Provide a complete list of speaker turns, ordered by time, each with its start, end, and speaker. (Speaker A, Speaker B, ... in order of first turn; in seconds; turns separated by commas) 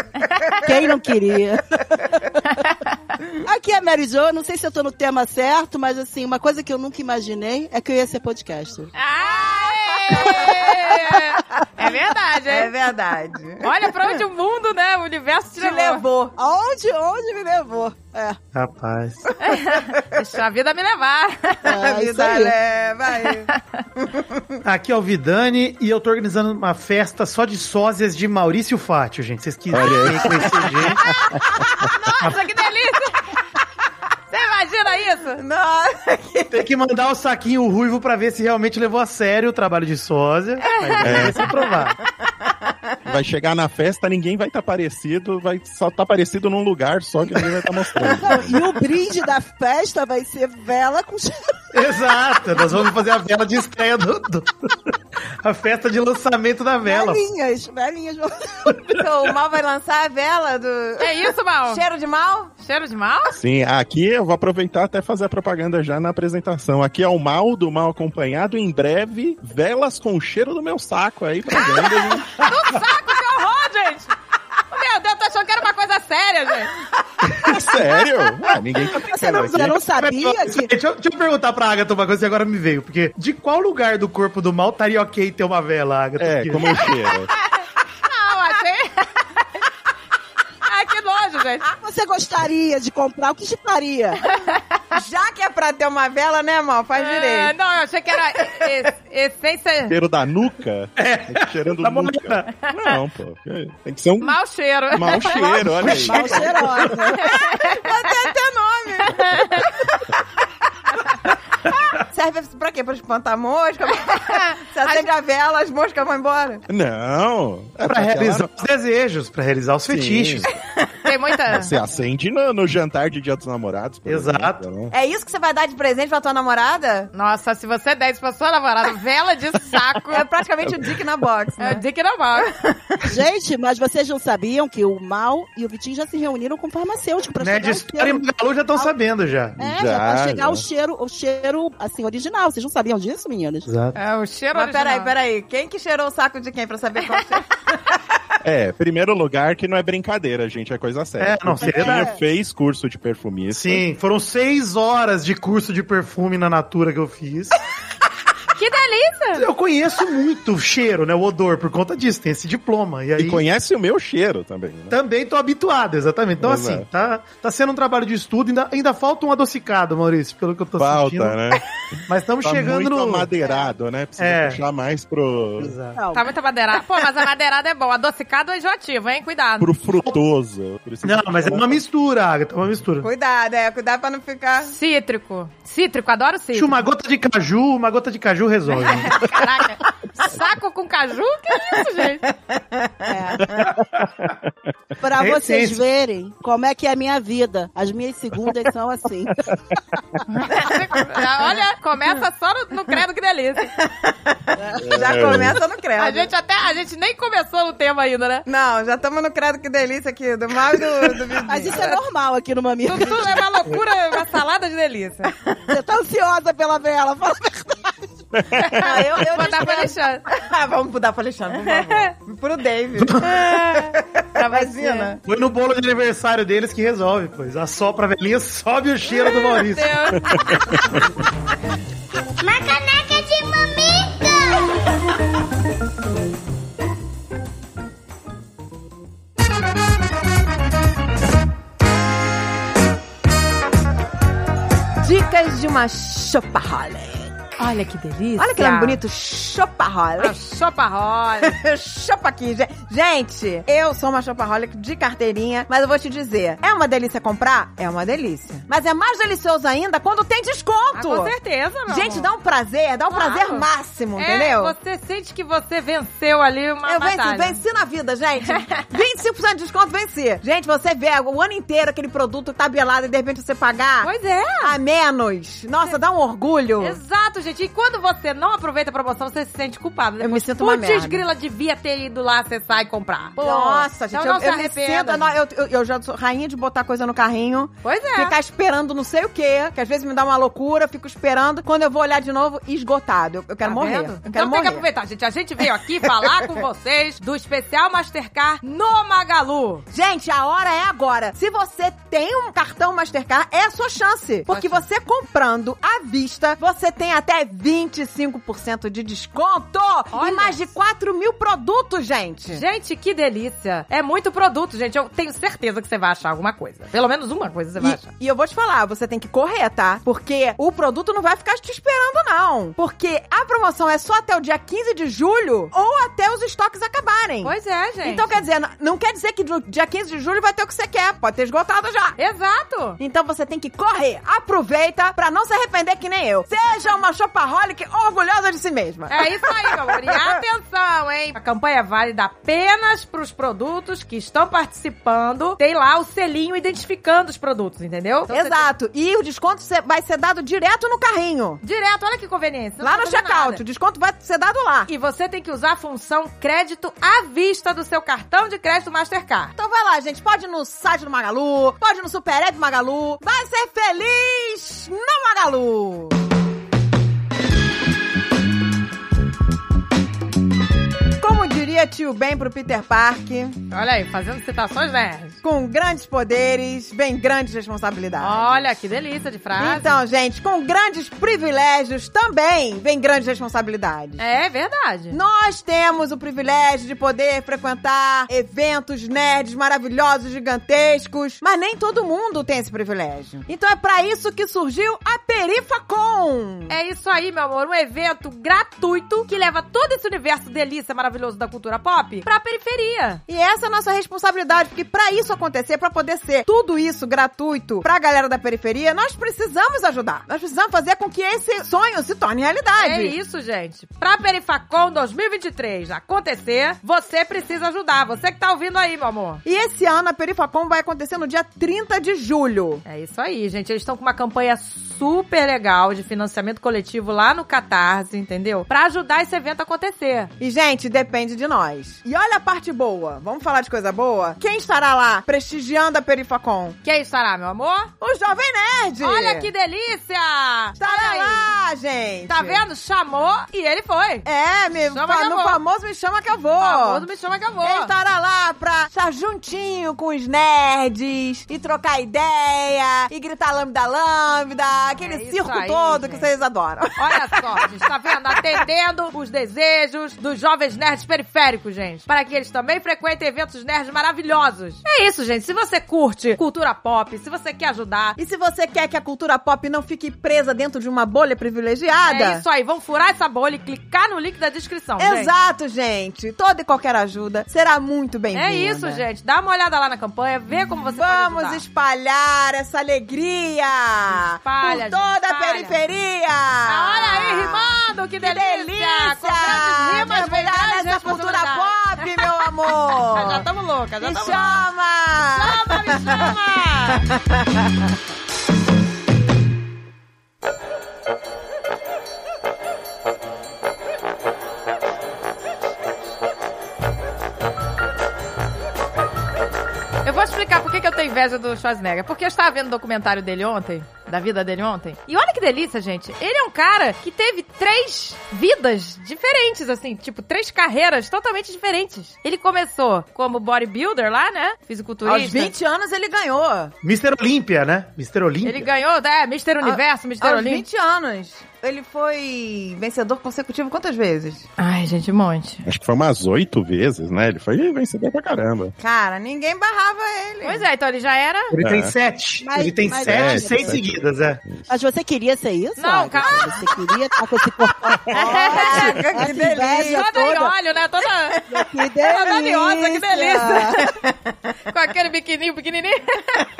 Speaker A: 0.2-0.6, Speaker B: 0.6-2.4, Speaker A: 2.4-2.9, Speaker B: 3.4-8.9, Speaker A: 8.9-12.7, Speaker C: 9.4-10.5, Speaker C: 12.5-14.0, Speaker A: 13.6-16.0, Speaker C: 15.6-16.3, Speaker B: 16.4-18.4, Speaker D: 18.5-19.3, Speaker A: 19.4-21.6, Speaker B: 21.6-22.5, Speaker C: 21.7-24.4, Speaker A: 23.5-23.8, Speaker D: 24.6-31.1, Speaker E: 29.7-31.9, Speaker C: 31.8-32.9, Speaker A: 31.9-33.1, Speaker A: 34.3-35.4, Speaker C: 35.4-36.5, Speaker D: 36.5-42.0, Speaker A: 40.7-41.3, Speaker E: 41.0-41.5, Speaker C: 42.4-42.7, Speaker E: 43.0-48.6, Speaker D: 47.3-48.3, Speaker B: 48.2-51.6, Speaker D: 51.7-54.9, Speaker D: 55.4-57.2, Speaker B: 56.8-58.8, Speaker C: 58.9-62.5, Speaker A: 61.0-61.8, Speaker A: 62.6-63.4, Speaker E: 63.4-72.4, Speaker A: 72.3-74.1, Speaker A: 74.7-76.8, Speaker D: 77.2-77.6, Speaker E: 77.4-79.8, Speaker B: 78.9-80.7, Speaker D: 79.8-86.8, Speaker E: 86.2-87.3, Speaker A: 88.0-89.2, Speaker A: 90.6-91.6, Speaker B: 91.8-94.2, Speaker A: 94.3-95.0, Speaker C: 94.9-97.5, Speaker A: 97.0-100.0, Speaker E: 99.9-104.4, Speaker D: 101.0-102.5, Speaker A: 102.7-103.0, Speaker A: 104.2-105.7, Speaker E: 104.9-107.0, Speaker B: 105.6-107.2, Speaker D: 105.8-106.4, Speaker A: 107.1-108.0, Speaker C: 107.3-109.5, Speaker A: 109.0-109.9, Speaker C: 112.0-116.6, Speaker A: 114.0-115.1, Speaker E: 116.7-118.5, Speaker D: 117.8-120.5, Speaker E: 119.9-120.5, Speaker C: 120.8-121.1, Speaker A: 121.0-121.8, Speaker E: 121.5-124.9, Speaker D: 124.0-124.6, Speaker C: 124.9-127.1, Speaker A: 127.1-130.2, Speaker C: 130.1-131.8, Speaker A: 131.6-132.5, Speaker C: 132.3-133.2, Speaker B: 133.1-138.2, Speaker D: 137.4-139.6, Speaker E: 139.6-140.6, Speaker B: 139.6-143.7, Speaker D: 143.7-144.0, Speaker A: 143.9-145.1, Speaker C: 144.5-147.9, Speaker E: 148.4-153.8, Speaker D: 151.2-152.1, Speaker B: 151.6-152.2, Speaker D: 153.5-157.6, Speaker A: 158.6-159.4, Speaker D: 159.3-163.4, Speaker E: 163.2-164.9, Speaker D: 164.9-171.4, Speaker E: 166.4-166.9, Speaker E: 170.8-171.6, Speaker D: 172.1-173.3, Speaker E: 172.4-175.7, Speaker C: 173.4-173.7, Speaker D: 174.2-174.6, Speaker D: 175.6-176.0, Speaker B: 175.9-176.3, Speaker A: 176.1-179.7, Speaker E: 179.6-181.8, Speaker D: 181.0-183.1, Speaker C: 183.0-184.7, Speaker A: 184.6-186.8, Speaker D: 186.5-189.2, Speaker A: 188.7-192.3, Speaker C: 192.3-193.6, Speaker B: 193.1-193.4, Speaker E: 193.4-194.5, Speaker B: 195.0-199.5, Speaker D: 195.2-195.8, Speaker E: 199.5-200.2, Speaker A: 200.3-203.7, Speaker C: 203.7-204.4, Speaker B: 204.6-205.1, Speaker E: 204.8-205.6, Speaker C: 204.9-206.3, Speaker A: 206.0-208.4, Speaker C: 208.4-211.9, Speaker B: 211.5-213.5, Speaker A: 212.8-215.3, Speaker B: 215.7-218.0, Speaker E: 218.3-218.9, Speaker A: 218.5-220.2, Speaker C: 218.8-225.2, Speaker A: 221.5-222.1, Speaker A: 223.2-225.2, Speaker D: 225.2-230.0, Speaker A: 229.1-230.6, Speaker E: 230.3-231.0, Speaker F: 232.4-234.7, Speaker C: 245.0-247.3, Speaker A: 247.6-249.0, Speaker C: 248.4-250.3, Speaker A: 250.2-251.6, Speaker C: 251.4-261.3, Speaker A: 260.9-262.3, Speaker C: 261.9-264.7, Speaker A: 263.1-267.6, Speaker C: 266.9-277.0, Speaker A: 268.5-268.8, Speaker A: 274.0-274.8, Speaker A: 276.8-285.3, Speaker C: 280.2-281.2, Speaker C: 283.4-294.8, Speaker A: 287.8-288.3, Speaker A: 293.6-299.8, Speaker C: 296.1-296.5, Speaker C: 299.9-312.6, Speaker A: 304.5-304.8, Speaker A: 310.1-310.6, Speaker A: 312.5-318.0, Speaker C: 317.8-332.2, Speaker A: 327.4-328.4, Speaker A: 332.2-333.0, Speaker C: 333.0-340.4, Speaker A: 336.5-336.9, Speaker A: 339.1-348.7, Speaker C: 348.3-351.6, Speaker A: 351.6-353.6, Speaker C: 352.8-354.9, Speaker A: 354.9-359.5, Speaker C: 359.6-366.1, Speaker C: 371.2-373.6, Speaker A: 373.7-375.4, Speaker C: 375.4-378.7, Speaker A: 378.2-380.0, Speaker C: 379.6-384.2, Speaker A: 384.2-385.2, Speaker C: 385.1-396.7, Speaker A: 396.7-403.2, Speaker C: 403.3-413.1, Speaker A: 412.8-419.4, Speaker C: 419.4-422.8, Speaker A: 422.9-430.3, Speaker C: 430.4-436.8, Speaker A: 436.8-437.9, Speaker C: 438.0-439.5, Speaker A: 439.0-441.5, Speaker C: 440.8-442.6, Speaker A: 442.3-444.3, Speaker C: 444.2-447.1, Speaker A: 444.8-445.6, Speaker A: 446.6-447.9, Speaker C: 447.6-457.6, Speaker A: 455.0-456.3, Speaker A: 456.9-468.2, Speaker C: 468.2-472.4, Speaker A: 472.0-475.3, Speaker C: 475.0-479.0, Speaker A: 478.3-481.6, Speaker C: 480.9-493.4, Speaker A: 484.1-485.8, Speaker A: 486.7-492.0, Speaker A: 493.1-494.6, Speaker C: 494.0-496.3, Speaker A: 495.3-497.1, Speaker C: 497.2-497.7, Speaker A: 510.0-525.5, Speaker C: 525.0-526.7, Speaker D: 526.8-528.7, Speaker A: 528.4-530.6, Speaker C: 529.6-534.5, Speaker A: 534.6-535.6, Speaker E: 535.6-538.7, Speaker C: 538.8-540.6, Speaker A: 540.4-541.5, Speaker D: 541.5-544.4, Speaker E: 541.6-541.9, Speaker B: 542.4-543.8, Speaker E: 543.0-544.7, Speaker B: 544.7-550.5, Speaker A: 545.8-546.5, Speaker A: 548.1-549.2, Speaker C: 548.1-550.1, Speaker A: 549.8-551.4, Speaker B: 551.5-553.8, Speaker A: 552.0-553.9, Speaker C: 553.4-554.1, Speaker A: 554.7-556.4